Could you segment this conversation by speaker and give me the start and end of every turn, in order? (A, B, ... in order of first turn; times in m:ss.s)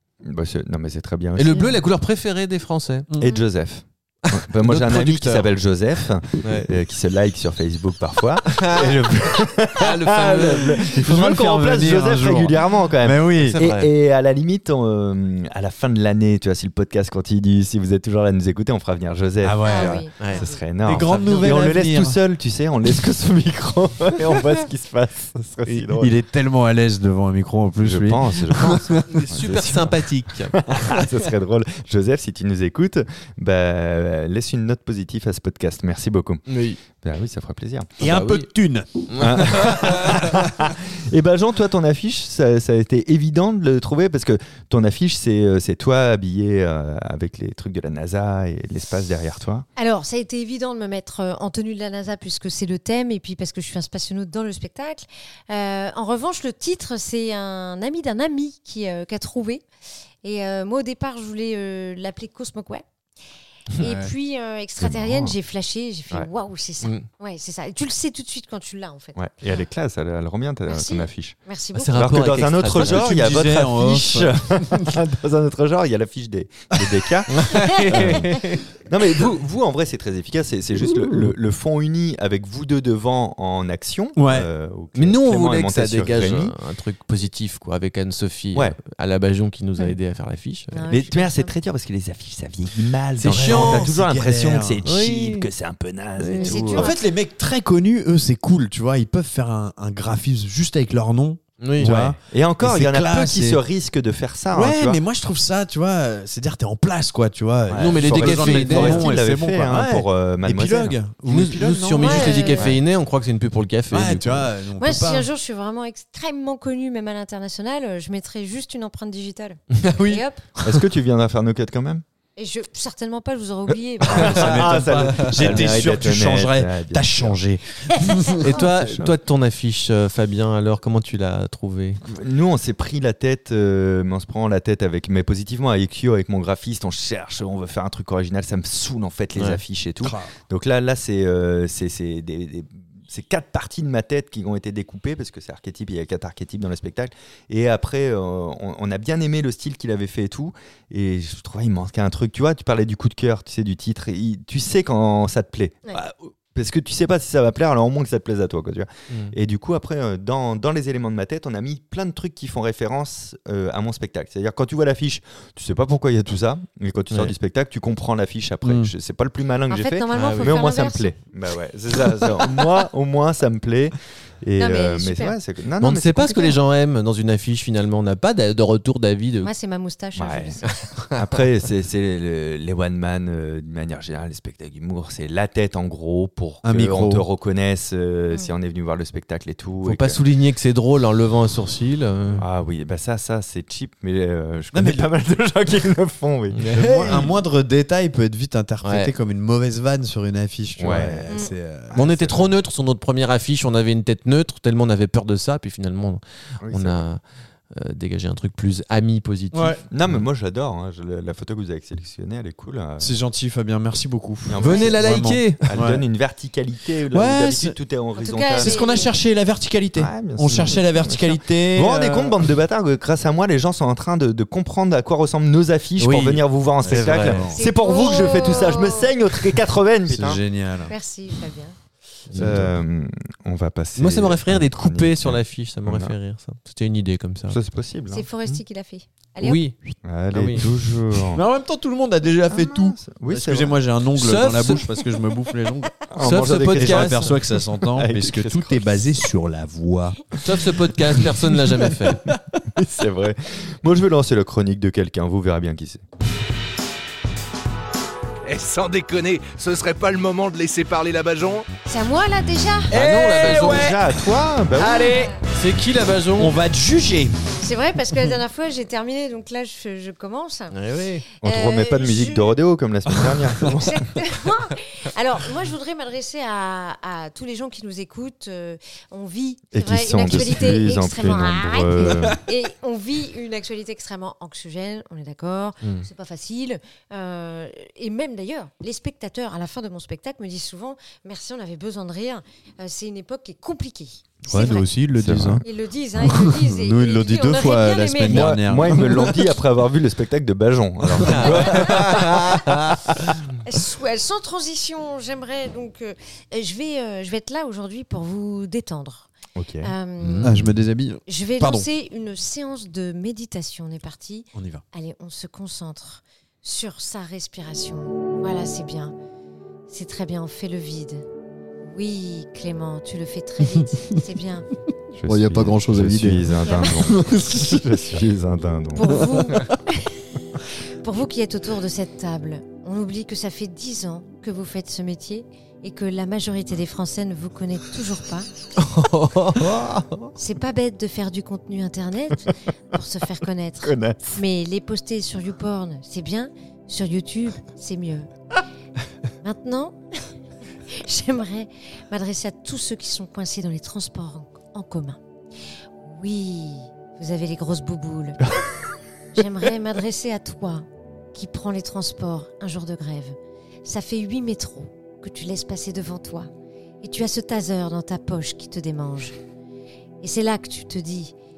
0:00.2-0:01.8 A
0:01.4-0:03.1 B
0:03.2-0:26.2 A
0:04.2-0:05.5 C
0:06.4-0:06.7 B
0:08.5-0:08.9 B
0:08.7-0:09.4 C
0:09.7-0:10.9 B
0:10.9-0:13.6 C
0:13.5-0:13.9 B
0:19.4-0:20.0 C
0:19.6-0:20.6 D
0:20.8-0:22.2 C
0:21.0-0:21.6 B
0:25.9-0:29.0 C
0:27.8-0:37.9 A
0:29.1-0:30.6 B
0:36.5-0:36.8 B
0:38.0-0:40.5 C
0:38.0-0:38.5 B
0:39.1-0:40.2 B
0:39.1-0:49.6 A
0:49.8-0:59.6 D
1:00.2-1:02.8 D
1:03.8-1:09.2 D
1:03.8-1:04.1 C
1:04.8-1:05.4 A
1:09.1-1:11.4 A
1:10.7-1:11.9 D
1:11.7-1:13.1 B
1:11.9-1:26.5 A
1:12.7-1:14.9 C
1:17.3-1:18.6 B
1:17.4-1:18.4 C
1:24.2-1:24.5 C
1:24.9-1:30.8 B
1:30.7-1:31.5 D
1:30.9-1:36.9 A
1:33.2-1:34.8 C
1:33.2-1:33.9 B
1:34.8-1:35.5 B
1:36.2-1:36.5 B
1:36.3-1:37.1 D
1:36.7-1:43.6 C
1:41.6-1:42.1 B
1:41.8-1:45.0 A
1:44.5-1:52.7 C
1:47.6-1:51.0 A
1:47.8-1:49.2 B
1:51.3-1:54.5 B
1:52.0-1:52.7 D
1:53.9-1:55.3 C
1:54.8-2:00.4 D
1:59.7-2:00.2 B
2:00.6-2:02.0 A
2:02.4-2:04.9 D
2:04.0-2:07.4 A
2:04.1-2:08.4 C
2:05.2-2:05.6 B
2:08.3-2:12.0 B
2:08.5-2:09.1 A
2:12.0-2:56.6 A
2:20.0-2:20.3 C
2:48.6-2:48.9 C
2:49.7-2:51.1 D
2:50.1-2:50.6 B
2:54.6-2:55.4 D
2:55.8-2:59.5 B
2:59.4-3:00.8 D
3:00.2-3:00.6 A
3:00.7-3:01.3 B
3:01.1-3:10.2 A
3:06.6-3:07.2 C
3:09.8-3:12.4 B
3:12.4-3:17.4 A
3:14.7-3:15.1 C
3:16.5-3:17.3 B
3:16.7-3:22.3 C
3:18.8-3:19.1 B
3:20.8-3:22.3 A
3:21.3-3:21.5 D
3:21.9-3:27.2 B
3:26.6-3:27.0 A
3:27.7-3:29.8 B
3:29.5-3:29.8 C
3:29.9-3:33.1 A
3:33.0-3:36.0 C
3:34.5-3:38.8 A
3:34.6-3:35.8 B
3:37.1-3:37.8 C
3:38.2-3:39.1 D
3:38.6-3:42.4 C
3:40.0-3:50.4 A
3:46.0-3:47.5 B
3:46.8-3:47.7 C
3:47.5-3:49.2 D
3:50.1-3:50.9 C
3:50.9-3:51.7 D
3:52.3-3:52.6 B
3:52.3-3:52.7 C
3:52.4-3:56.1 A
3:54.0-3:57.6 B
3:57.5-3:58.2 A
3:58.1-3:59.6 D
3:59.4-3:59.7 B
4:00.0-4:01.4 A
4:00.3-4:00.7 B
4:01.3-4:10.3 C
4:02.5-4:03.8 A
4:04.1-4:04.8 B
4:06.1-4:09.2 A
4:06.2-4:07.4 B
4:10.4-4:12.3 B
4:12.3-4:16.0 A
4:18.4-4:21.6 E
4:21.9-4:23.0 D
4:22.9-4:24.0 B
4:22.9-4:24.2 C
4:23.4-4:25.1 A
4:24.7-4:25.4 C
4:24.8-4:25.4 D
4:25.4-4:26.6 B
4:26.4-4:27.4 C
4:27.6-4:30.7 D
4:30.7-4:31.2 B
4:31.3-4:32.5 D
4:31.4-4:34.2 A
4:33.7-4:54.9 D
4:39.7-4:42.4 A
4:42.1-4:42.4 C
4:54.5-4:55.6 C
4:55.1-4:55.6 A
4:55.6-4:58.6 D
4:56.2-4:59.4 C
4:58.2-5:03.4 A
5:01.2-5:03.0 B
5:01.6-5:02.3 D
5:03.6-5:09.3 D
5:09.6-5:09.9 A
5:09.8-5:10.6 D
5:10.2-5:10.7 B
5:10.4-5:11.9 C
5:11.2-5:19.1 D
5:14.5-5:14.8 C
5:19.9-5:21.2 D
5:21.8-5:24.7 D
5:25.1-5:29.5 A
5:25.2-5:27.8 C
5:26.6-5:26.9 D
5:28.9-5:30.2 D
5:31.0-5:38.5 D
5:38.8-5:40.1 B
5:40.4-5:48.3 D
5:43.8-5:44.4 A
5:49.4-5:50.0 D
5:50.9-5:55.2 D
5:56.0-5:58.6 D
5:59.3-6:06.5 D
6:07.0-6:09.3 D
6:10.2-6:11.3 D